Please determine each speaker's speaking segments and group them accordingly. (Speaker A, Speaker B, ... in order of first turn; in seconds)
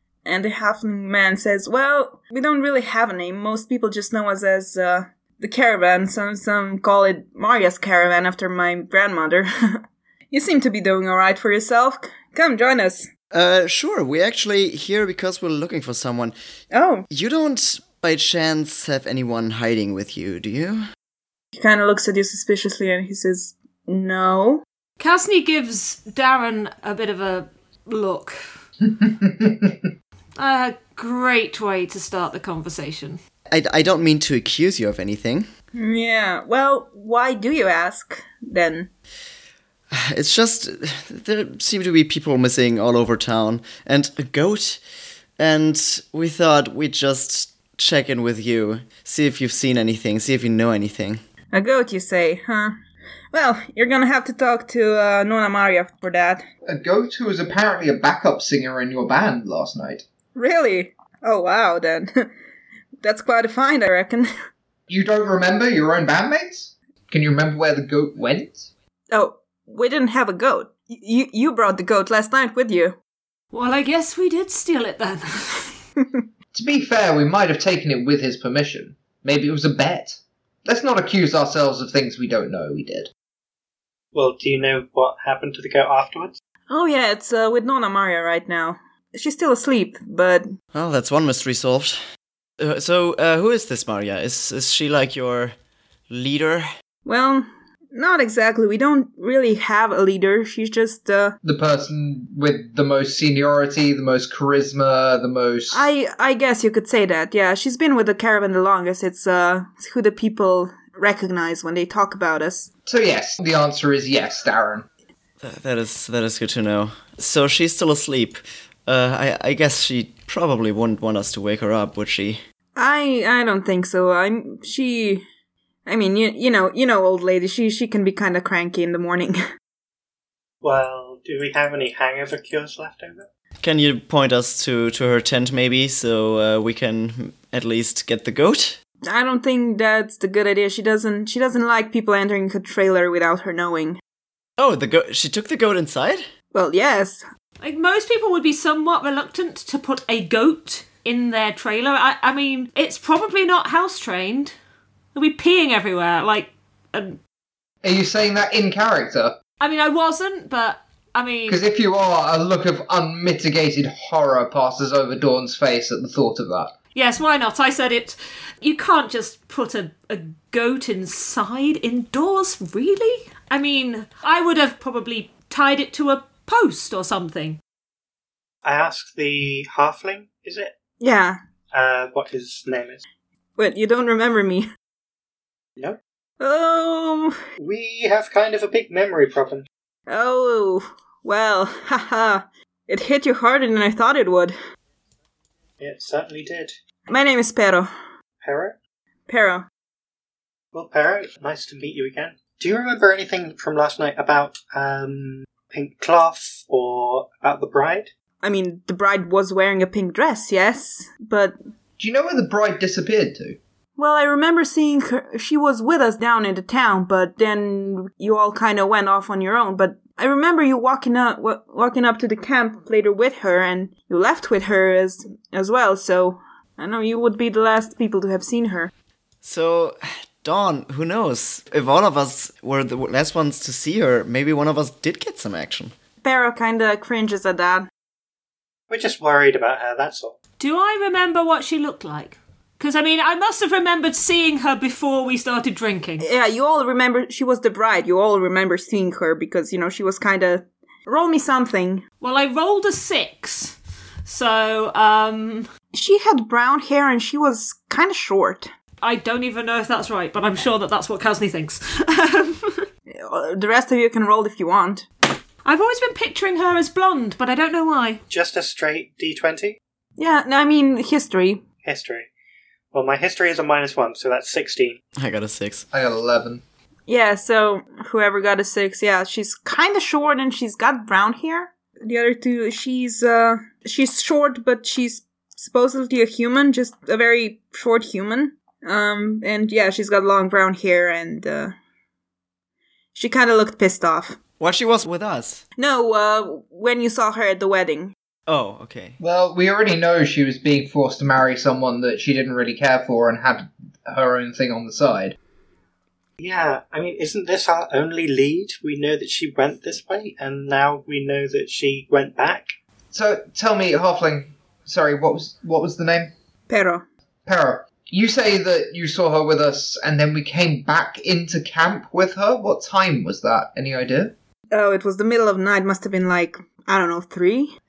Speaker A: 0.2-13.1, 16.7-17.1, 21.6-24.6, 35.8-38.9, 51.5-52.8, 53.3-56.5, 60.4-62.3, 63.0-64.3, 69.1-73.0, 86.7-90.5, 97.0-101.4, 105.7-112.7, 122.8-125.2, 125.9-129.4, 139.1-144.0, 146.5-147.2, 181.0-181.4, 183.6-184.7, 186.4-187.4, 190.1-194.6, 197.1-197.9, 199.3-199.7, 208.4-211.6, 214.0-228.9, 236.2-237.9, 246.2-252.1, 255.9-258.7, 263.1-265.1, 270.2-271.6, 277.1-291.7, 293.1-294.4, 295.8-298.1, 316.7-317.0, 324.7-327.7
Speaker B: 13.3-16.3, 17.1-20.9, 33.5-35.5, 39.9-44.8, 45.4-51.2, 90.7-92.0, 92.6-95.6, 96.1-96.7, 115.4-122.4, 133.6-138.8, 144.6-146.2, 229.4-235.9, 275.2-275.9, 294.6-295.6, 298.5-299.2
Speaker C: 25.0-28.4, 30.4-33.2, 73.5-75.7, 147.6-154.5, 155.2-157.2, 159.6-161.6, 166.9-177.6, 240.6-246.2, 252.2-255.7, 259.0-262.9, 265.6-268.2
Speaker D: 28.9-29.9, 56.7-60.0, 64.9-68.7, 76.5-83.1, 101.4-105.8, 112.9-114.9, 157.8-159.3, 161.5-166.7, 212.0-213.6, 275.9-276.6, 299.2-305.4, 313.1-316.3, 317.5-324.3
Speaker E: 84.1-86.4, 130.6-133.3, 178.6-180.7, 181.7-183.1, 187.6-189.7, 195.8-196.8, 198.4-198.8, 200.7-208.1, 238.9-240.4, 268.3-269.8, 271.8-272.3, 272.9-275.0, 306.4-312.8